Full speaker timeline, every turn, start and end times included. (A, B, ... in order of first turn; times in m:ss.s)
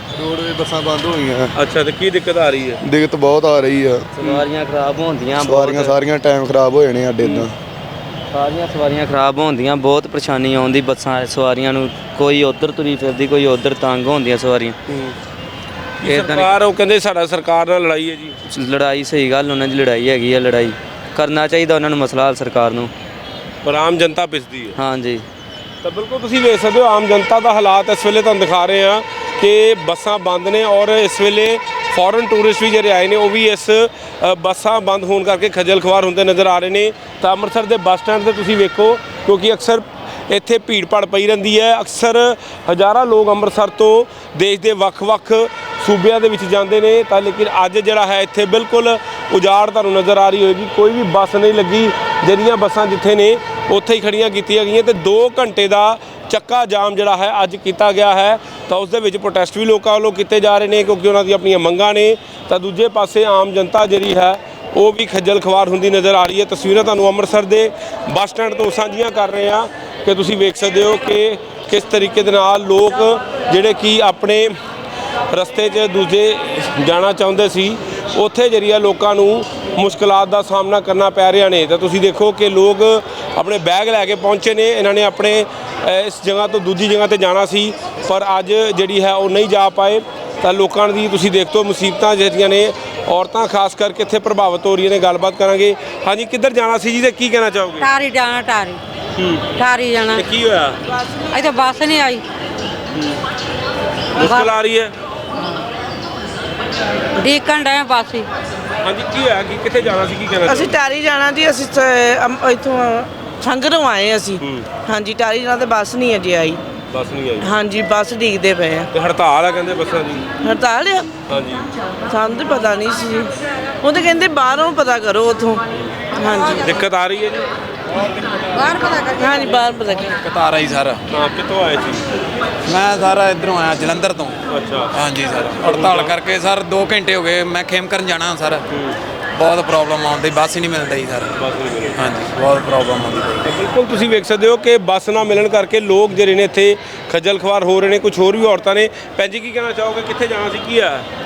0:00.2-0:01.5 A
0:01.6-0:02.8 B
0:02.8-0:04.1 A
0:04.2-0:06.0 C
0:05.4-0:07.5 A
0:07.2-0:07.5 B
0:08.3-0:14.8 C
0:14.9-0:15.2 B
0:16.0-0:18.4 B
0:16.0-0:16.6 C
0:18.5-0:22.9 C
0:23.6-0:24.8 B
0:24.8-0:25.2 C
0:25.8-1:14.5 B
1:15.3-1:37.9 B
1:37.8-1:38.8 D
1:39.2-1:39.5 B
1:39.6-1:40.2 D
1:40.1-1:40.8 B
1:41.3-1:42.2 D
1:44.2-1:44.9 B
1:44.2-1:44.5 D
1:47.2-1:48.3 D
1:48.8-1:50.7 B
1:50.4-1:56.6 E
1:54.4-1:54.7 B
1:56.9-1:57.5 B
1:57.4-1:58.9 E
1:58.9-2:00.3 B
2:00.4-2:01.1 E
2:01.3-2:01.7 B
2:02.1-2:03.3 E
2:03.8-2:05.6 E
2:06.2-2:06.8 E
2:06.6-2:07.5 B
2:08.6-2:09.1 D
2:09.2-2:10.2 E
2:10.2-2:11.0 F
2:11.1-2:12.0 B
2:12.7-2:14.4 F
2:14.5-2:14.9 B
2:14.9-2:18.6 F
2:15.6-2:16.2 B
2:18.7-2:19.0 B
2:19.4-2:21.4 F
2:21.4-2:22.0 B
2:22.0-2:23.5 F
2:23.4-2:31.0 B